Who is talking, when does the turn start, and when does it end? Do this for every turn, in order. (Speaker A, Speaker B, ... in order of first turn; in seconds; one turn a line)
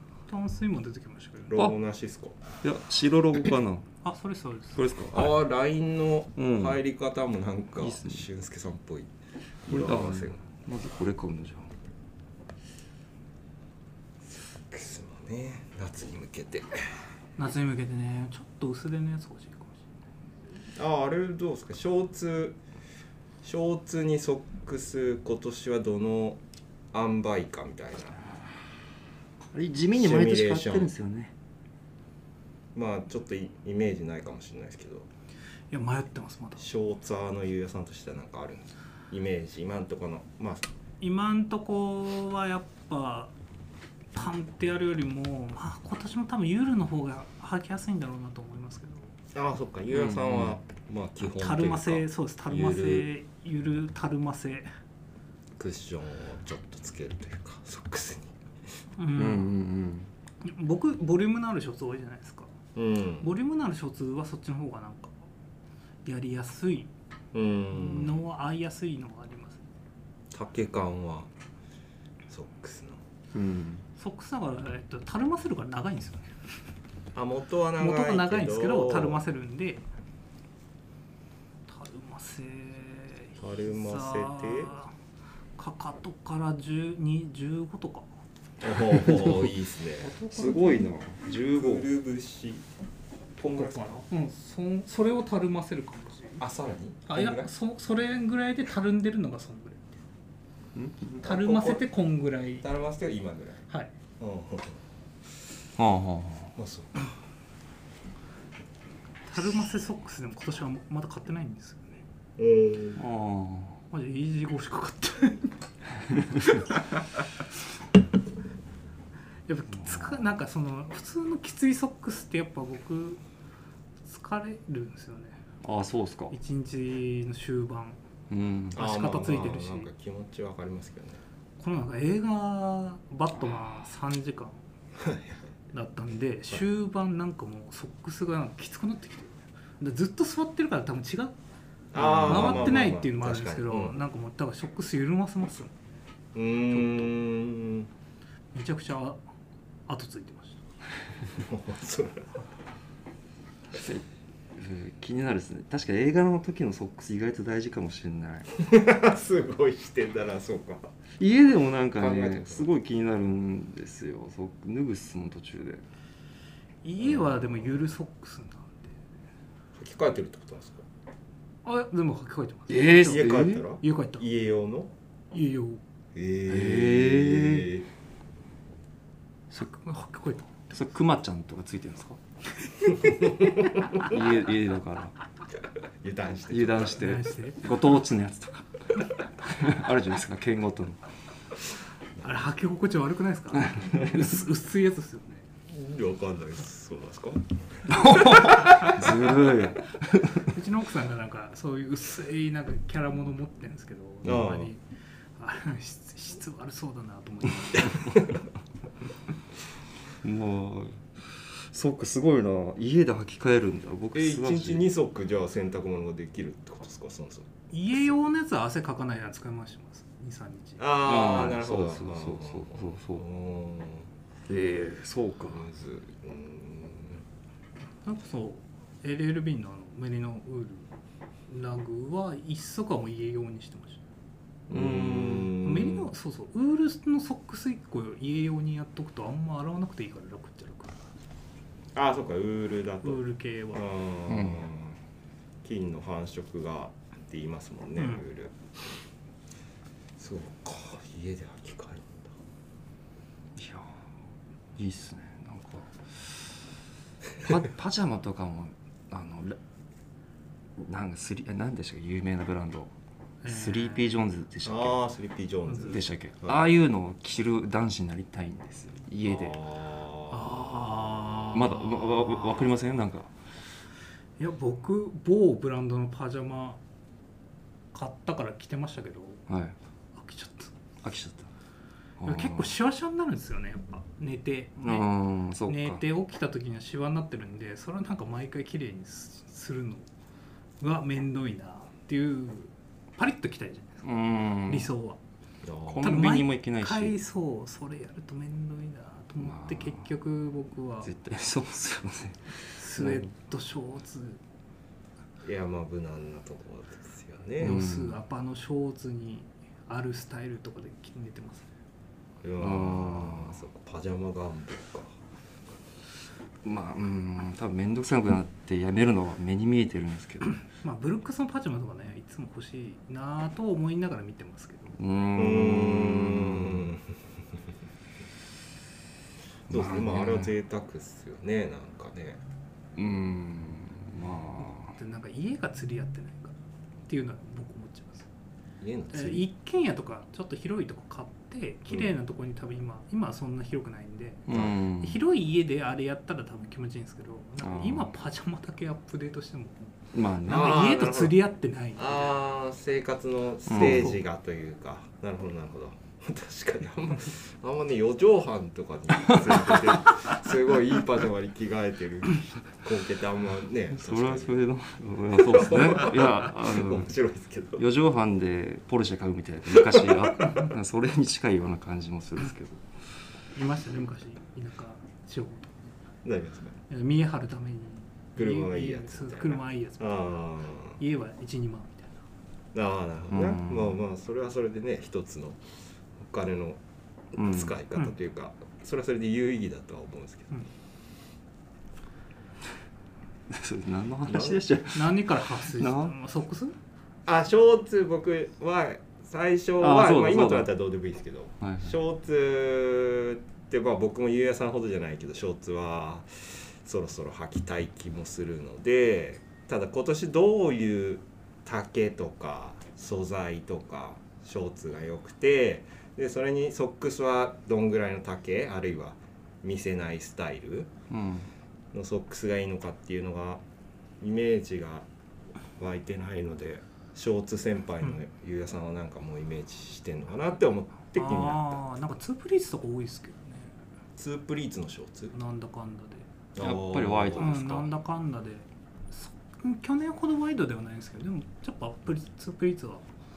Speaker A: 0.3-1.7
Speaker B: 1.5-2.4
Speaker C: 2.6-3.9
Speaker A: 4.0-4.8
Speaker C: 4.8-5.4
Speaker B: 5.1-9.1
Speaker C: 6.4-6.8
Speaker C: 7.8-8.3
Speaker B: 9.7-10.4
Speaker C: 9.7-11.7
Speaker B: 14.7-16.7
Speaker A: 17.4-19.9
Speaker B: 20.8-22.6
Speaker B: 23.4-26.4
Speaker B: 26.9-28.2
Speaker C: 29.5-31.3
Speaker B: 29.9-30.9
Speaker B: 32.7-35.1
Speaker A: 35.7-36.6
Speaker B: 36.6-40.7
Speaker A: 41.0-43.3
Speaker A: 44.1-49.1
Speaker B: 49.3-53.1
Speaker C: 49.9-50.6
Speaker A: 51.2-54.7
Speaker B: 55.6-58.3
Speaker A: 59.0-59.5
Speaker C: 59.2-60.1
Speaker A: 60.4-62.5
Speaker B: 62.8-63.3
Speaker A: 63.2-65.3
Speaker A: 66.0-66.9
Speaker B: 67.3-68.2
Speaker A: 67.7-69.6
Speaker B: 70.3-71.3
Speaker B: 72.3-73.0
Speaker C: 73.3-73.8
Speaker A: 74.0-76.3
Speaker B: 77.1-79.3
Speaker A: 77.8-79.9
Speaker A: 81.7-84.9
Speaker B: 83.4-84.8
Speaker A: 85.6-88.1
Speaker B: 88.6-90.1
Speaker C: 89.1-89.4
Speaker A: 90.0-90.9
Speaker C: 90.3-91.9
Speaker B: 91.5-92.7
Speaker B: 93.4-94.0
Speaker A: 93.4-96.4
Speaker B: 96.4-97.5
Speaker A: 97.1-100.0
Speaker C: 100.8-101.3
Speaker B: 101.2-101.9
Speaker A: 101.2-102.7
Speaker B: 102.6-103.7
Speaker B: 104.2-104.8
Speaker C: 105.8-106.5
Speaker B: 106.6-107.2
Speaker A: 109.3-112.0
Speaker B: 112.4-113.0
Speaker C: 113.0-113.8
Speaker A: 113.9-115.6
Speaker A: 116.4-116.7
Speaker A: 119.5-123.2
Speaker C: 119.8-120.3
Speaker A: 124.0-125.4
Speaker C: 125.6-126.3
Speaker A: 126.3-128.0
Speaker C: 128.3-128.8
Speaker B: 128.7-131.2
Speaker A: 128.7-129.9
Speaker A: 131.6-134.6
Speaker B: 135.0-135.5
Speaker A: 135.7-141.3
Speaker B: 141.9-144.0
Speaker A: 141.9-146.0
Speaker C: 142.2-142.7
Speaker B: 146.3-147.9
Speaker A: 146.6-147.2
Speaker A: 148.5-149.2
Speaker A: 149.9-150.6
Speaker B: 151.3-152.3
Speaker C: 153.7-154.1
Speaker C: 154.6-158.5
Speaker B: 158.5-160.9
Speaker C: 161.2-165.8
Speaker B: 161.9-162.7
Speaker A: 166.8-169.0
Speaker B: 167.0-167.8
Speaker B: 169.8-170.8
Speaker A: 171.7-174.3
Speaker C: 172.7-173.8
Speaker B: 173.0-174.9
Speaker A: 175.3-175.8
Speaker B: 176.2-177.9
Speaker C: 176.5-177.8
Speaker C: 179.5-179.8
Speaker A: 179.8-180.7
Speaker C: 180.7-182.2
Speaker A: 182.9-183.3
Speaker C: 184.0-185.2
Speaker B: 186.0-187.2
Speaker C: 186.5-188.7
Speaker A: 186.9-187.7
Speaker C: 189.5-191.0
Speaker A: 192.2-195.5
Speaker C: 193.5-194.1
Speaker B: 195.7-199.2
Speaker C: 197.9-200.5
Speaker A: 200.4-204.8
Speaker B: 204.2-204.7
Speaker A: 205.4-208.3
Speaker C: 210.2-214.9
Speaker B: 214.1-218.1
Speaker A: 217.7-220.9
Speaker B: 220.8-224.1
Speaker C: 221.0-223.2
Speaker C: 224.5-225.7
Speaker B: 225.5-227.2
Speaker A: 228.1-230.9
Speaker A: 231.5-234.0
Speaker B: 234.7-236.1
Speaker C: 234.7-235.6
Speaker A: 235.6-241.0
Speaker B: 241.9-245.0
Speaker A: 243.0-243.8
Speaker C: 244.3-244.7
Speaker B: 245.6-248.5
Speaker A: 248.0-248.2
Speaker B: 250.2-252.3
Speaker C: 253.6-253.9
Speaker C: 254.8-256.2
Speaker C: 257.4-259.6
Speaker C: 260.8-262.9
Speaker A: 263.4-264.1
Speaker C: 263.5-265.0
Speaker B: 264.6-266.7
Speaker A: 265.7-266.0
Speaker C: 265.8-269.6
Speaker B: 269.2-271.4
Speaker A: 270.3-272.7
Speaker C: 271.5-273.3
Speaker A: 274.4-276.8
Speaker A: 277.9-279.4
Speaker C: 279.5-279.8
Speaker A: 280.1-280.8
Speaker C: 281.0-281.5
Speaker C: 282.2-282.7
Speaker A: 282.2-285.1
Speaker C: 284.8-286.0
Speaker A: 285.6-290.1
Speaker A: 290.8-294.1
Speaker C: 294.0-294.9
Speaker A: 294.6-295.2
Speaker B: 295.6-296.1
Speaker C: 295.8-297.2
Speaker A: 296.0-301.1
Speaker C: 299.4-300.1
Speaker C: 301.0-303.3
Speaker A: 302.7-304.4
Speaker B: 305.4-307.8
Speaker C: 307.6-308.2
Speaker A: 307.6-311.7
Speaker B: 312.4-315.2
Speaker C: 312.6-313.6
Speaker C: 316.6-320.6
Speaker A: 320.7-325.0
Speaker C: 325.0-326.9
Speaker B: 325.4-327.1
Speaker B: 329.7-332.4
Speaker C: 329.7-330.6
Speaker C: 333.0-334.9
Speaker A: 334.6-338.3
Speaker B: 338.8-339.5
Speaker A: 339.1-352.4
Speaker C: 344.5-345.2
Speaker B: 344.5-344.8
Speaker C: 347.6-348.1
Speaker C: 350.1-351.4
Speaker B: 350.4-351.4
Speaker B: 352.0-364.7
Speaker C: 353.7-354.2
Speaker C: 359.2-360.2
Speaker C: 363.9-367.1
Speaker B: 365.3-367.8
Speaker C: 367.8-372.8
Speaker B: 369.8-370.1
Speaker A: 370.4-370.6
Speaker A: 373.5-376.0
Speaker B: 376.2-376.8
Speaker A: 376.9-380.4
Speaker B: 378.4-381.0
Speaker A: 380.9-382.2
Speaker B: 382.7-385.6
Speaker C: 383.3-384.0
Speaker B: 386.2-386.8
Speaker B: 387.3-390.5
Speaker C: 387.4-387.8
Speaker C: 393.5-396.1
Speaker B: 394.3-394.6
Speaker A: 394.9-396.8
Speaker B: 397.3-420.9
Speaker C: 399.8-400.8
Speaker C: 401.6-401.9
Speaker C: 421.1-421.5
Speaker B: 421.9-423.6
Speaker B: 424.2-425.1
Speaker B: 425.8-431.8
Speaker A: 431.1-433.8
Speaker B: 434.2-435.4
Speaker A: 435.3-436.3
Speaker B: 436.5-437.7
Speaker C: 436.6-437.9
Speaker A: 437.4-443.1